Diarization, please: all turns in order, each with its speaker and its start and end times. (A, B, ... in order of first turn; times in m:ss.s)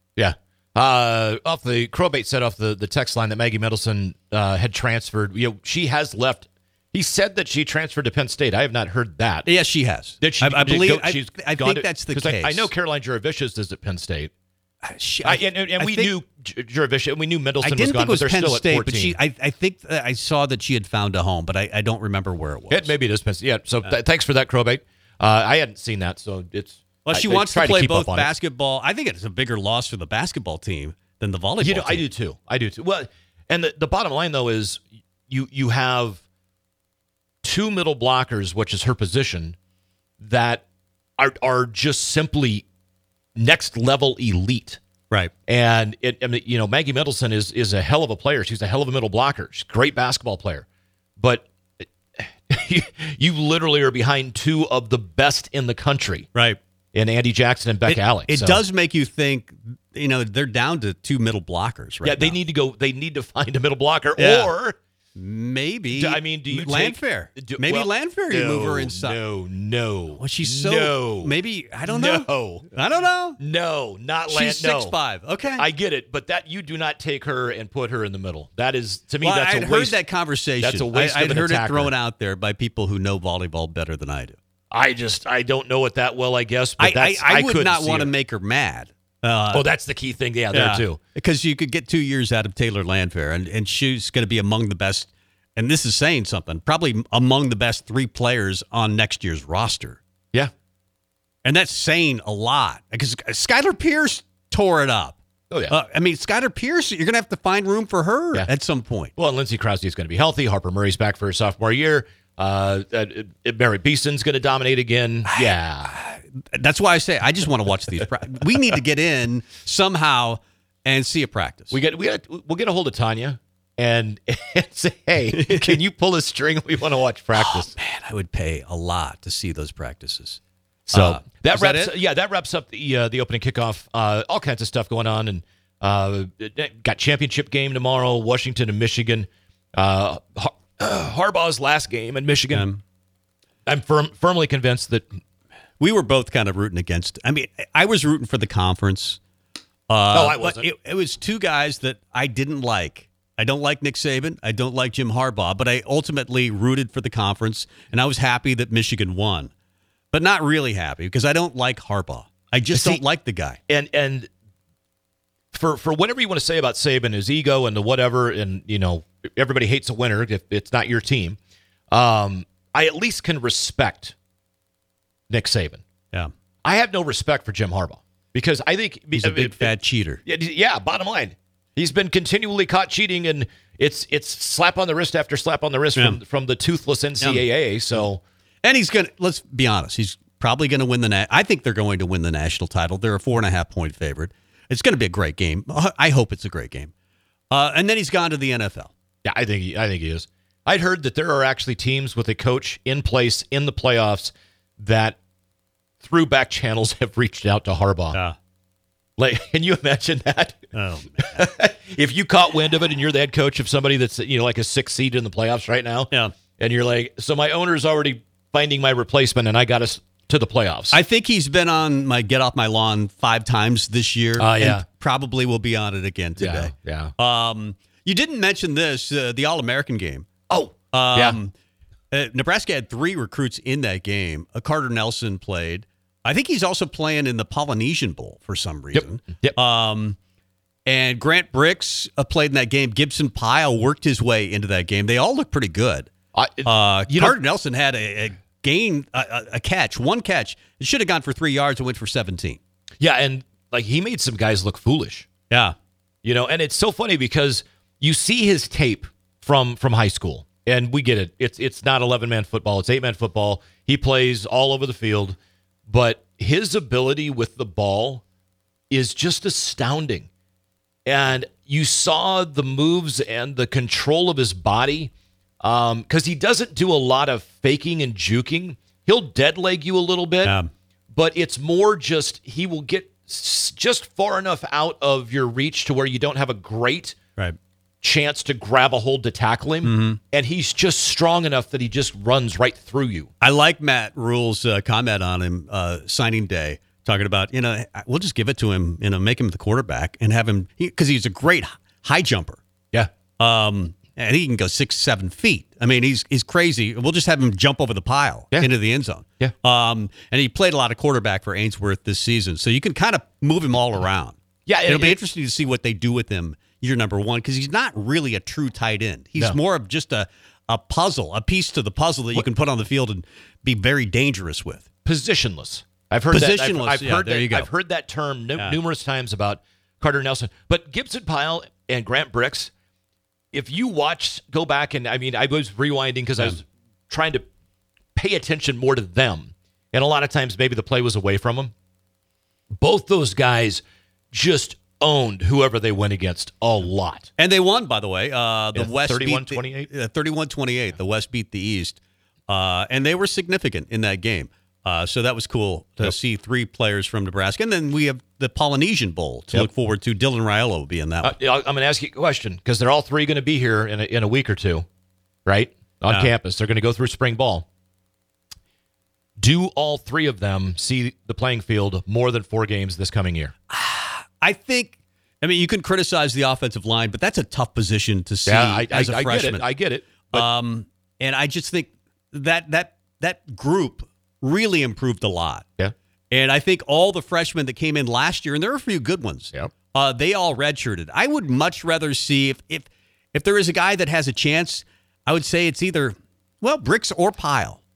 0:00.2-0:09.5 A
0:09.4-0:12.7 B
0:10.2-0:14.3 A
0:14.8-0:16.1 B
0:15.2-0:19.2 A
0:17.6-0:22.9 B
0:22.7-0:28.3 A
0:27.0-0:32.0 B
0:31.6-0:36.2 A
0:37.4-0:39.6 A
0:40.2-0:40.6 A
0:41.2-0:42.6 A
0:43.4-0:44.8 A
0:45.5-0:50.6 A
0:51.2-0:56.3 A
0:56.3-0:56.6 B
0:56.9-0:58.6 A
0:57.8-1:02.4 B
1:02.0-1:04.8 A
1:04.2-1:04.5 B
1:05.2-1:09.2 B
1:05.9-1:12.7 A
1:10.2-1:13.4 B
1:13.4-1:20.0 A
1:14.3-1:15.6 B
1:19.2-1:24.4 B
1:20.6-1:21.9 A
1:24.7-1:28.1 A
1:26.8-1:29.7 B
1:29.5-1:31.0 A
1:30.5-1:40.0 B
1:41.4-1:45.2 B
1:45.5-1:45.8 A
1:45.7-1:49.1 B
1:49.2-1:55.9 A
1:55.3-2:01.8 B
2:01.7-2:07.7 A
2:05.3-2:05.8 B
2:07.4-2:10.4 B
2:10.9-2:22.7 A
2:10.9-2:11.9 B
2:22.5-2:22.8 B
2:23.6-2:25.1 A
2:25.8-2:29.2 B
2:29.9-2:39.5 B
2:30.1-2:30.7 A
2:40.1-2:43.6 B
2:42.7-2:43.0 A
2:43.7-2:44.3 A
2:45.5-2:51.4 A
2:51.9-2:54.1 A
2:55.3-2:55.8 A
2:56.6-2:59.7 A
2:59.1-3:00.2 B
3:00.2-3:08.2 A
3:07.2-3:08.0 B
3:08.6-3:16.9 B
3:17.5-3:18.9 B
3:19.2-3:25.2 A
3:26.0-3:28.2 A
3:29.2-3:30.7 A
3:30.7-3:31.4 B
3:31.2-3:41.0 A
3:40.9-3:50.3 B
3:44.4-3:44.8 A
3:46.4-3:47.1 A
3:50.5-3:51.4 A
3:50.9-3:51.5 B
3:52.1-4:00.2 B
3:58.9-3:59.6 A
4:00.9-4:06.1 B
4:06.3-4:07.4 A
4:06.6-4:12.6 B
4:13.0-4:15.3 A
4:15.5-4:15.7 B
4:16.2-4:28.2 A
4:28.9-4:30.3 A
4:31.0-4:40.5 A
4:40.4-4:40.7 B
4:41.1-4:47.2 A
4:48.0-4:53.3 A
4:49.8-4:50.2 B
4:53.4-5:02.6 B
5:03.4-5:24.8 B
5:14.6-5:15.2 A
5:25.0-5:32.7 A
5:26.3-5:27.7 B
5:33.5-5:37.4 A
5:38.2-5:41.7 A
5:42.8-5:47.3 A
5:47.4-6:01.3 B
5:48.7-5:49.9 A
6:01.2-6:04.8 A
6:05.4-6:07.6 A
6:09.4-6:13.5 A
6:13.7-6:19.7 B
6:18.4-6:20.5 A
6:20.3-6:25.6 B
6:26.3-6:37.8 B